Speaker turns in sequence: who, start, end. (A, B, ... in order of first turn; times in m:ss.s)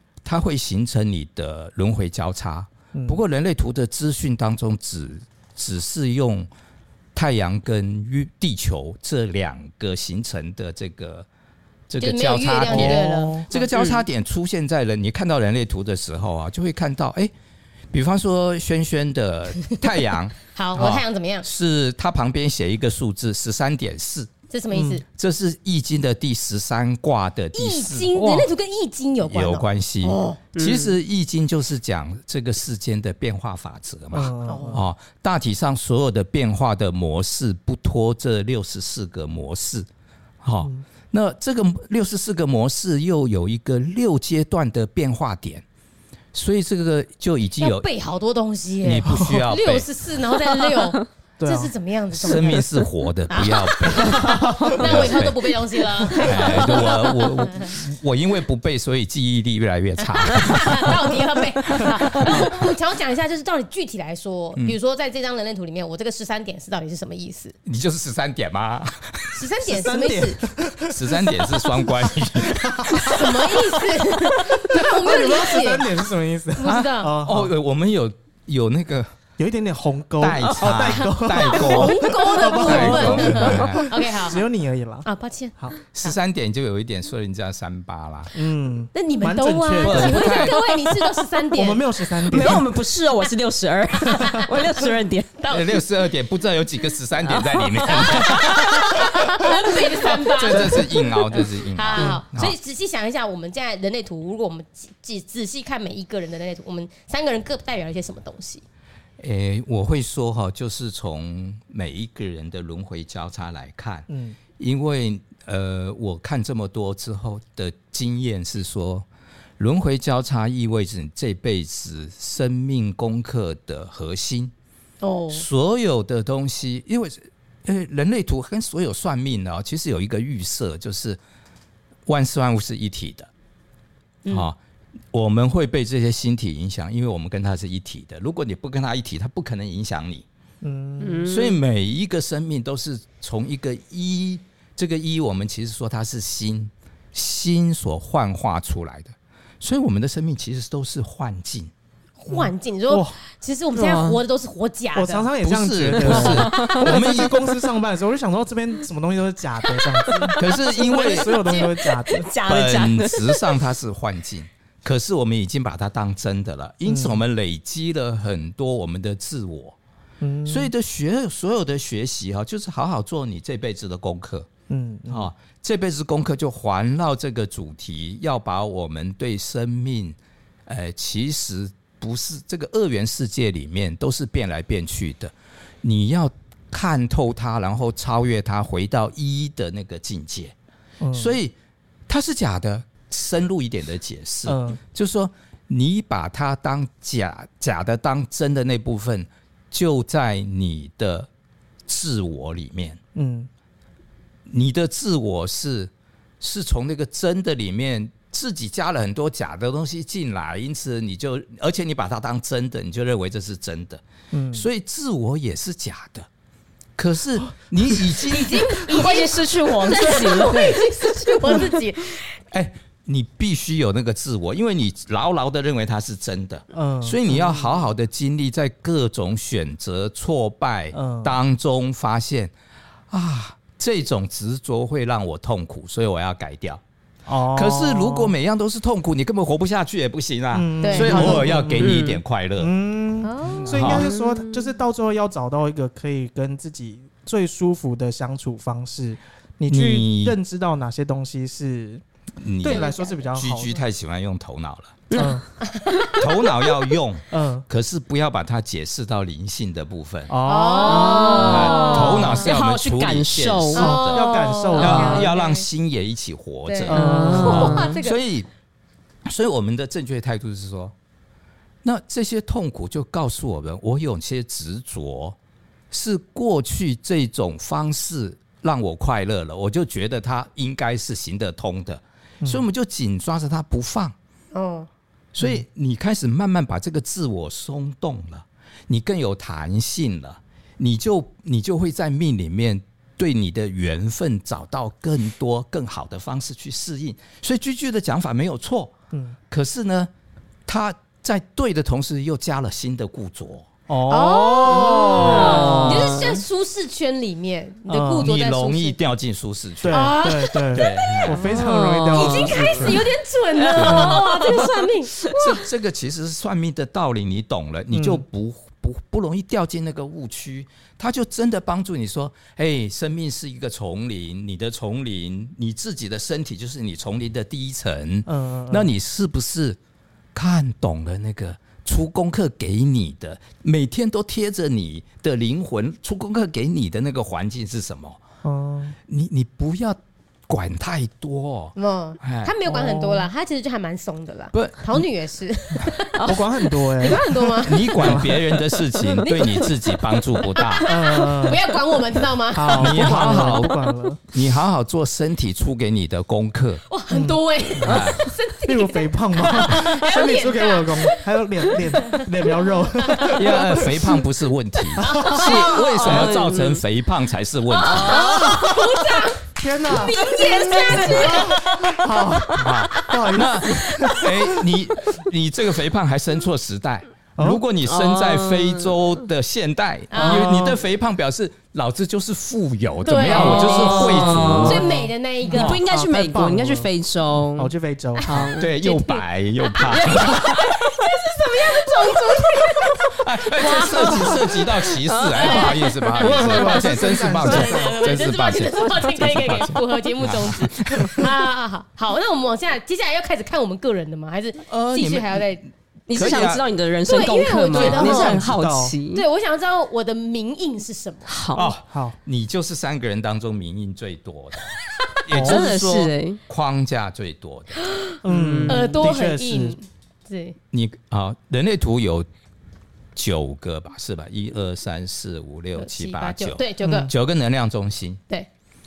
0:00.2-0:06.5 A
0:02.9-0:03.2 B
0:07.1-0:11.3 A
0:11.9-0:17.3 A
0:12.0-0:13.7 C
0:12.6-0:13.5 B
0:13.7-0:14.0 D
0:17.9-0:24.3 A
0:20.5-0:21.4 C
0:24.5-0:25.0 C
0:24.7-0:25.0 B
0:25.1-0:28.5 A
0:27.5-0:30.4 C
0:29.2-0:39.9 A
0:30.5-0:31.0 D
0:34.1-0:34.8 B
0:34.4-0:34.8 C
0:40.4-0:45.6 A
0:46.3-0:47.8 A
0:47.6-0:57.7 C
0:48.8-0:49.9 A
0:49.0-0:49.4 B
0:51.4-0:51.7 B
0:52.1-0:55.4 A
0:54.0-0:55.0 B
0:56.2-1:01.2 A
1:00.1-1:07.5 C
1:07.6-1:09.4 A
1:09.3-1:10.4 C
1:09.6-1:17.5 B
1:10.9-1:13.2 A
1:12.9-1:15.9 C
1:16.6-1:17.1 C
1:16.6-1:19.1 A
1:19.4-1:25.8 B
1:20.2-1:23.9 A
1:21.3-1:24.4 C
1:25.0-1:26.2 C
1:25.9-1:28.3 A
1:28.3-1:30.4 B
1:28.9-1:31.8 C
1:29.8-1:30.6 A
1:31.5-1:32.7 B
1:32.2-1:35.3 D
1:34.0-1:34.4 B
1:34.3-1:34.6 C
1:35.4-1:35.8 C
1:35.5-1:39.2 A
1:37.2-1:39.5 D
1:37.8-1:48.6 C
1:40.2-1:42.5 A
1:40.5-1:40.8 B
1:42.0-1:42.2 B
1:49.2-1:59.0 A
1:54.1-1:54.4 B
1:59.6-2:04.5 A
2:05.0-2:05.4 C
2:05.3-2:11.2 A
2:12.0-2:13.3 A
2:14.3-2:14.6 A
2:15.1-2:20.2 A
2:20.6-2:21.3 B
2:21.0-2:21.6 D
2:21.2-2:31.7 A
2:32.2-2:35.3 C
2:32.3-2:33.2 B
2:33.7-2:34.2 D
2:34.9-2:42.3 B
2:35.4-2:37.4 A
2:36.0-2:37.0 D
2:40.2-2:40.5 D
2:40.4-2:41.6 A
2:40.9-2:41.8 C
2:41.5-2:43.6 D
2:42.4-2:49.8 A
2:46.8-2:47.2 B
2:50.2-2:50.7 B
2:50.4-2:54.5 A
2:54.7-2:55.3 B
2:55.1-3:10.5 A
3:11.0-3:11.4 B
3:11.1-3:11.5 A
3:12.1-3:21.3 A
3:14.4-3:14.8 B
3:21.9-3:23.0 A
3:23.1-3:23.5 B
3:24.5-3:36.3 A
3:34.3-3:34.7 B
3:37.0-3:38.8 A
3:38.3-3:42.4 C
3:38.7-3:41.8 D
3:42.5-3:52.5 A
3:46.7-3:47.9 B
3:50.9-3:51.4 B
3:53.1-3:56.8 A
3:57.2-3:58.3 B
3:57.5-4:02.7 A
4:00.5-4:12.0 B
4:00.8-4:01.6 C
4:01.8-4:02.2 D
4:03.2-4:04.1 C
4:03.6-4:04.1 A
4:03.9-4:04.7 D
4:09.7-4:10.4 A
4:12.4-4:15.0 A
4:12.6-4:13.8 B
4:12.6-4:13.2 C
4:15.1-4:16.2 D
4:15.1-4:15.4 B
4:15.6-4:16.5 C
4:16.2-4:20.3 A
4:17.3-4:17.6 B
4:20.3-4:21.5 B
4:20.4-4:22.5 C
4:20.8-4:24.0 D
4:21.4-4:28.5 A
4:23.7-4:25.7 C
4:23.8-4:25.2 B
4:24.8-4:25.2 D
4:26.6-4:28.2 C
4:26.9-4:27.8 B
4:26.9-4:27.9 D
4:29.2-4:30.9 A
4:31.8-4:35.4 A
4:35.9-4:44.1 A
4:44.5-4:44.9 C
4:45.3-4:58.9 A
4:59.1-4:59.4 B
4:59.5-5:00.1 A
5:00.6-5:03.7 A
5:03.9-5:06.4 B
5:04.1-5:09.0 C
5:04.7-5:06.4 D
5:07.9-5:08.3 B
5:08.2-5:10.1 A
5:09.8-5:13.0 B
5:09.9-5:11.1 C
5:10.7-5:11.4 A
5:11.3-5:13.0 D
5:12.1-5:15.6 C
5:13.6-5:15.3 D
5:13.7-5:14.2 A
5:13.9-5:14.2 B
5:15.3-5:29.8 A
5:17.9-5:18.2 B
5:28.2-5:28.9 B
5:30.3-5:38.2 A
5:38.4-5:39.0 B
5:39.1-5:42.5 A
5:41.8-5:46.4 C
5:42.6-5:43.3 B
5:44.5-5:45.0 A
5:46.2-5:48.4 B
5:46.9-5:48.3 C
5:47.6-5:50.9 A
5:49.2-5:53.4 C
5:50.9-5:51.8 B
5:52.5-5:54.2 B
5:52.8-5:56.8 A
5:56.9-6:02.3 C
5:57.1-5:58.1 B
5:57.8-5:58.2 A
5:58.6-6:04.1 B
6:03.1-6:04.1 C
6:03.2-6:08.4 A
6:05.0-6:06.3 B
6:05.0-6:06.3 C
6:05.5-6:06.8 D
6:07.7-6:13.1 C
6:07.7-6:09.1 D
6:08.0-6:08.9 B
6:09.6-6:14.7 B
6:09.9-6:11.8 D
6:12.5-6:24.8 A
6:17.8-6:18.9 D
6:20.1-6:20.8 C
6:20.2-6:20.7 B
6:23.0-6:25.8 C
6:23.3-6:24.9 D
6:23.3-6:26.9 B
6:25.5-6:27.7 D
6:27.6-6:28.5 B
6:28.2-6:45.7 C
6:28.2-6:28.7 D
6:28.6-6:30.6 A
6:29.8-6:30.7 D
6:33.1-6:41.3 A
6:33.9-6:34.4 D
6:34.9-6:36.7 D
6:36.2-6:38.2 B
6:44.7-6:46.6 A
6:46.1-6:49.2 D
6:47.0-6:48.4 C
6:47.7-6:48.4 A
6:47.8-6:48.9 B
6:49.1-6:51.4 C
6:51.3-6:51.7 D
6:51.5-6:54.7 A
6:51.9-6:52.2 B
6:55.2-6:57.8 A
6:55.3-6:56.4 D
6:55.3-6:55.6 B
6:57.8-7:00.6 C
6:58.2-6:59.8 B
6:58.3-6:58.8 D
7:00.7-7:02.3 A
7:03.1-7:08.2 A
7:05.8-7:07.1 C
7:06.8-7:07.1 B